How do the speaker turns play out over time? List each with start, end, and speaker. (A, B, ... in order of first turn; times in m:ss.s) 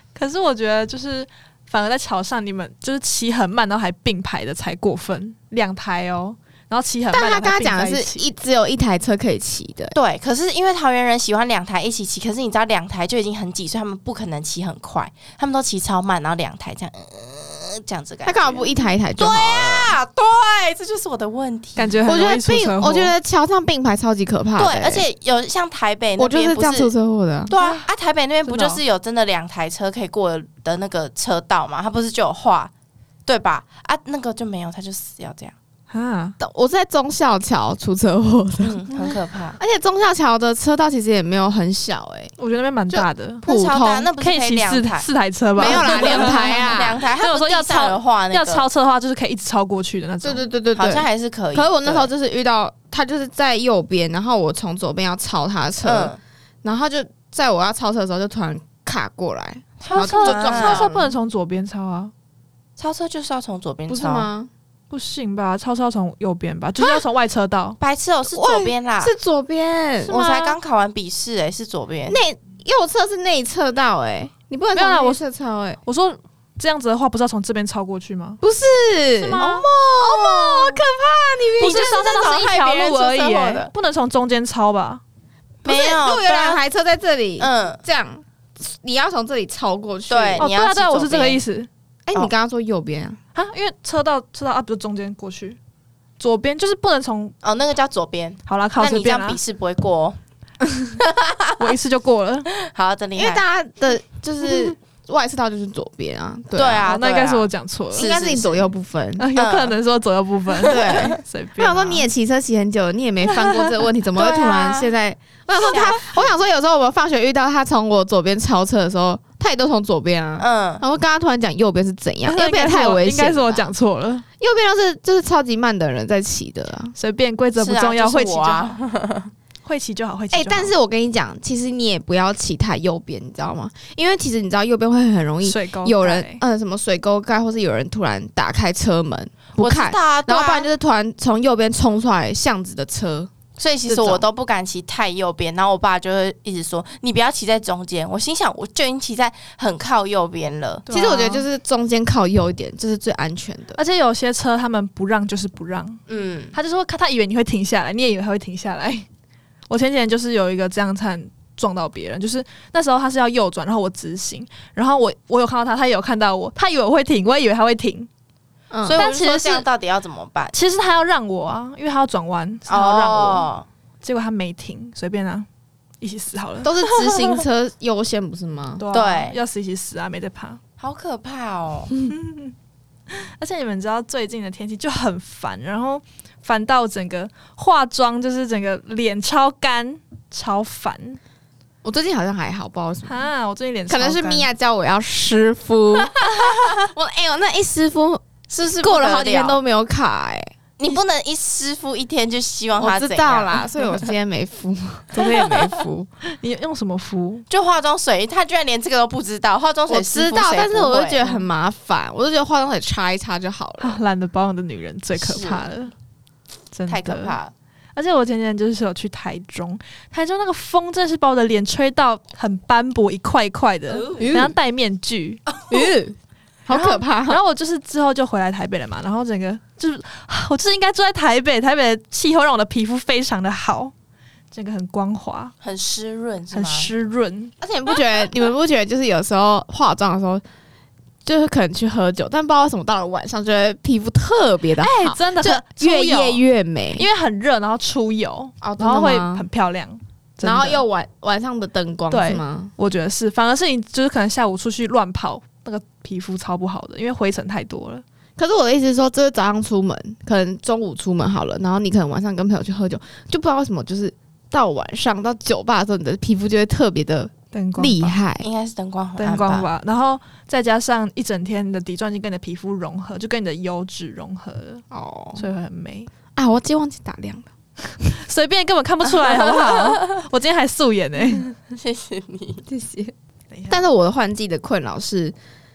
0:00.2-0:08.2 A
0:07.1-0:10.0 B
0:09.9-0:22.0 C
0:18.3-0:20.0 B
0:21.8-0:23.1 A
0:22.1-0:25.0 B
0:24.6-0:26.9 C
0:26.2-0:27.5 B
0:27.5-0:32.7 C
0:27.5-0:27.9 A
0:28.4-0:28.8 B
0:33.3-0:35.5 C
0:35.9-0:36.4 A
0:36.4-0:42.3 B
0:38.6-0:39.6 C
0:42.4-0:43.4 A
0:42.9-0:44.1 B
0:43.4-0:45.0 C
0:44.2-0:50.4 A
0:45.6-0:47.1 B
0:45.6-0:48.7 C
0:50.2-1:01.1 B
0:50.8-0:52.1 C
0:55.8-0:56.2 C
0:59.8-1:00.9 C
0:59.9-1:02.1 A
1:02.8-1:04.3 C
1:03.9-1:04.5 B
1:04.9-1:07.8 A
1:07.8-1:09.1 C
1:08.2-1:10.6 B
1:10.1-1:12.2 C
1:12.1-1:15.8 B
1:14.7-1:15.2 A
1:15.8-1:18.4 A
1:18.4-1:19.4 B
1:19.2-1:19.7 A
1:19.4-1:20.8 C
1:20.0-1:22.0 B
1:21.6-1:23.7 C
1:21.6-1:25.0 A
1:25.6-1:26.6 C
1:25.6-1:30.5 B
1:27.4-1:27.8 C
1:30.1-1:31.4 C
1:30.4-1:31.7 A
1:32.1-1:33.2 B
1:33.4-1:35.6 A
1:36.2-1:37.3 A
1:37.4-1:40.2 C
1:38.5-1:39.4 A
1:41.0-1:41.6 C
1:41.6-1:42.5 A
1:42.6-1:43.4 C
1:43.2-1:46.9 B
1:46.6-1:48.7 C
1:46.8-1:48.1 A
1:48.0-1:49.3 B
1:49.2-1:52.1 A
1:49.4-1:49.8 C
1:50.6-1:51.2 C
1:50.7-2:03.7 B
1:54.2-1:54.9 C
1:55.5-1:56.3 C
2:00.4-2:00.8 C
2:02.3-2:04.2 A
2:04.4-2:07.0 B
2:07.0-2:08.7 A
2:07.6-2:09.3 C
2:09.6-2:10.7 A
2:10.3-2:23.3 B
2:15.4-2:16.4 A
2:19.6-2:20.7 C
2:23.6-2:30.8 C
2:23.9-2:24.2 B
2:30.9-2:31.5 A
2:30.9-2:33.8 B
2:33.8-2:36.0 A
2:36.1-2:36.5 C
2:36.5-2:39.1 A
2:39.7-2:48.1 A
2:48.7-2:49.1 B
2:48.8-2:50.6 C
2:49.0-2:49.7 A
2:50.5-2:53.5 A
2:52.7-2:53.7 C
2:54.0-2:55.5 A
2:56.0-2:57.2 A
2:56.6-2:58.8 B
2:58.8-3:00.6 A
2:58.9-2:59.4 C
3:00.8-3:01.9 C
3:02.1-3:02.6 A
3:03.1-3:11.2 A
3:11.8-3:13.2 B
3:13.1-3:14.5 A
3:13.9-3:18.2 B
3:16.2-3:16.8 C
3:18.5-3:19.6 C
3:18.8-3:20.5 B
3:20.8-3:24.1 C
3:22.8-3:26.1 B
3:25.2-3:25.8 C
3:26.3-3:27.4 A
3:27.5-3:31.4 C
3:29.9-3:34.0 B
3:33.8-3:35.9 A
3:35.2-3:35.7 C
3:36.7-3:37.4 A
3:36.9-3:37.5 C
3:38.0-3:45.4 A
3:44.1-3:44.6 B
3:45.7-3:47.4 B
3:46.7-3:53.9 A
3:54.5-3:55.5 A
3:55.6-3:56.9 C
3:56.5-3:57.5 A
3:57.6-4:00.4 B
4:01.2-4:07.1 B
4:04.8-4:06.4 A
4:07.0-4:10.8 A
4:08.6-4:09.4 B
4:10.4-4:12.7 B
4:12.1-4:18.0 A
4:18.4-4:28.5 B
4:27.5-4:28.2 A
4:28.4-4:29.7 C
4:29.2-4:34.8 A
4:34.9-4:35.4 B
4:35.4-4:36.1 A
4:36.4-4:37.5 B
4:38.0-4:41.5 A
4:39.2-4:40.0 C
4:41.7-4:42.6 C
4:42.7-4:43.1 B
4:43.5-4:43.9 A
4:43.7-4:45.4 B